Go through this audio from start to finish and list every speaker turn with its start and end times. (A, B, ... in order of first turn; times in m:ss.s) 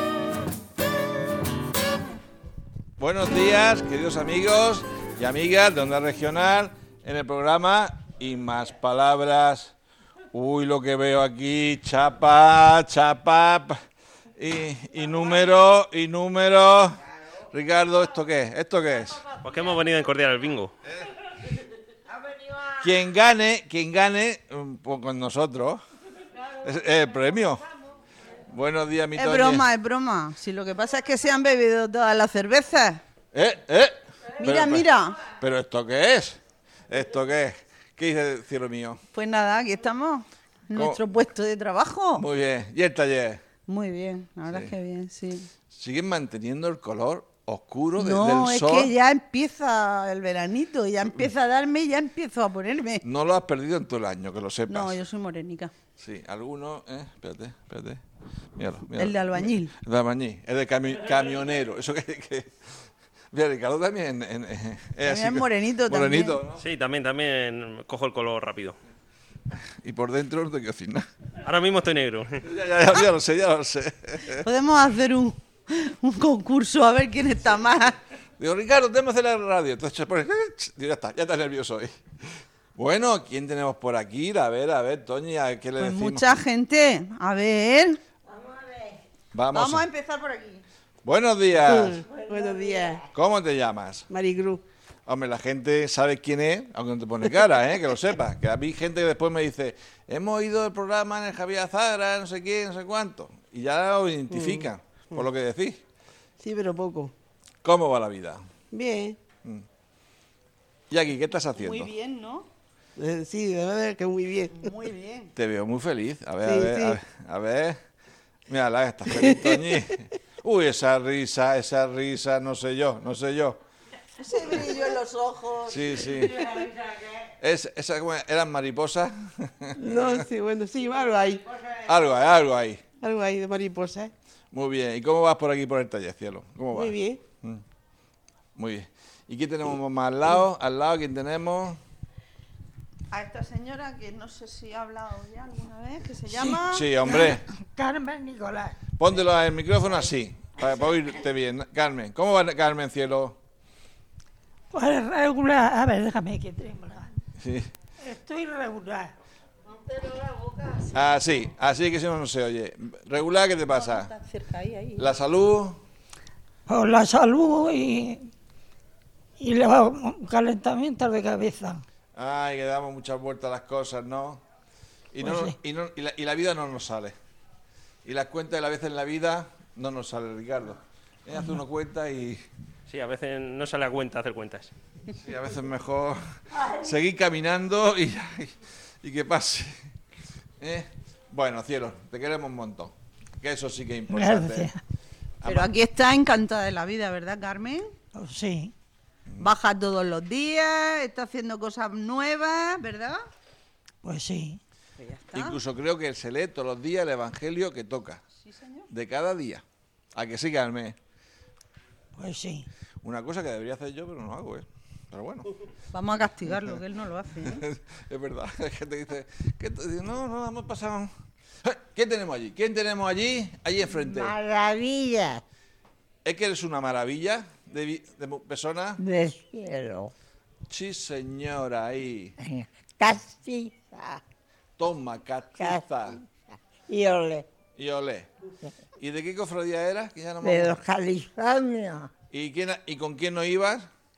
0:03.0-0:09.7 A
0:10.3-0:13.8 A
0:14.4-0:17.0 A
0:17.5-0:19.3 A
0:19.4-0:20.7 B
0:22.8-0:25.8 A
0:26.6-0:27.7 A
0:28.5-0:29.7 A
0:29.1-0:33.0 C
0:33.3-0:39.0 A
0:34.4-0:35.2 C
0:39.1-0:42.3 C
0:40.7-0:41.2 A
0:42.2-0:43.6 A
0:43.7-0:45.5 C
0:44.4-0:44.7 A
0:45.6-0:48.9 A
0:48.0-0:53.0 C
0:53.0-0:55.0 A
0:54.7-0:55.7 C
0:56.0-0:58.0 A
0:58.6-1:02.5 A
0:58.9-0:59.8 C
1:03.3-1:06.6 A
1:05.0-1:06.4 C
1:06.6-1:08.8 B
1:09.8-1:11.1 A
1:11.4-1:12.3 B
1:12.4-1:14.5 A
1:14.4-1:18.0 C
1:18.4-1:21.9 A
1:22.8-1:26.4 A
1:25.8-1:28.0 C
1:29.3-1:29.9 A
1:29.5-1:30.6 C
1:31.0-1:32.0 A
1:31.7-1:33.1 D
1:33.1-1:34.1 A
1:34.1-1:34.6 D
1:35.1-1:45.8 A
1:44.3-1:45.2 D
1:46.4-1:47.1 D
1:47.6-1:48.4 A
1:48.7-1:49.2 D
1:50.9-1:51.9 A
1:51.6-1:52.5 C
1:53.0-1:54.8 D
1:54.5-1:55.3 C
1:55.4-1:57.8 A
1:56.4-1:57.0 D
1:58.5-2:03.6 A
1:59.2-1:59.9 D
2:04.2-2:05.8 C
2:05.7-2:06.6 A
2:07.4-2:10.2 A
2:09.8-2:11.5 D
2:11.9-2:12.8 A
2:13.0-2:14.1 D
2:14.5-2:17.6 A
2:16.7-2:17.2 D
2:18.6-2:21.8 A
2:23.1-2:26.9 C
2:26.3-2:28.8 E
2:26.7-2:27.4 A
2:29.0-2:33.4 A
2:34.7-2:37.1 E
2:37.4-2:37.7 A
2:38.0-2:39.1 E
2:40.9-2:44.1 A
2:43.7-2:45.2 C
2:45.0-2:45.8 A
2:46.7-2:48.3 E
2:49.4-2:51.8 E
2:52.2-2:54.4 A
2:55.1-2:57.2 A
2:55.2-2:55.6 E
2:58.0-3:02.4 A
3:02.9-3:04.7 B
3:05.2-3:09.7 A
3:10.6-3:14.7 A
3:14.1-3:14.8 E
3:15.4-3:15.7 A
3:15.4-3:17.9 C
3:18.1-3:18.7 E
3:19.4-3:23.2 C
3:24.0-3:24.6 E
3:25.0-3:25.6 C
3:25.3-3:28.2 A
3:28.4-3:28.9 C
3:28.9-3:29.6 A
3:30.2-3:31.0 A
3:32.2-3:32.7 E
3:33.0-3:35.5 A
3:35.9-3:37.6 C
3:37.5-3:41.1 A
3:41.6-3:44.4 A
3:43.9-3:45.4 F
3:46.2-3:49.0 A
3:49.0-3:50.1 F
3:50.7-3:52.3 A
3:52.4-3:54.2 F
3:54.8-3:56.2 A
3:56.9-3:57.5 F
3:57.8-3:58.3 A
3:59.0-4:00.8 A
4:00.4-4:02.1 F
4:02.3-4:03.9 A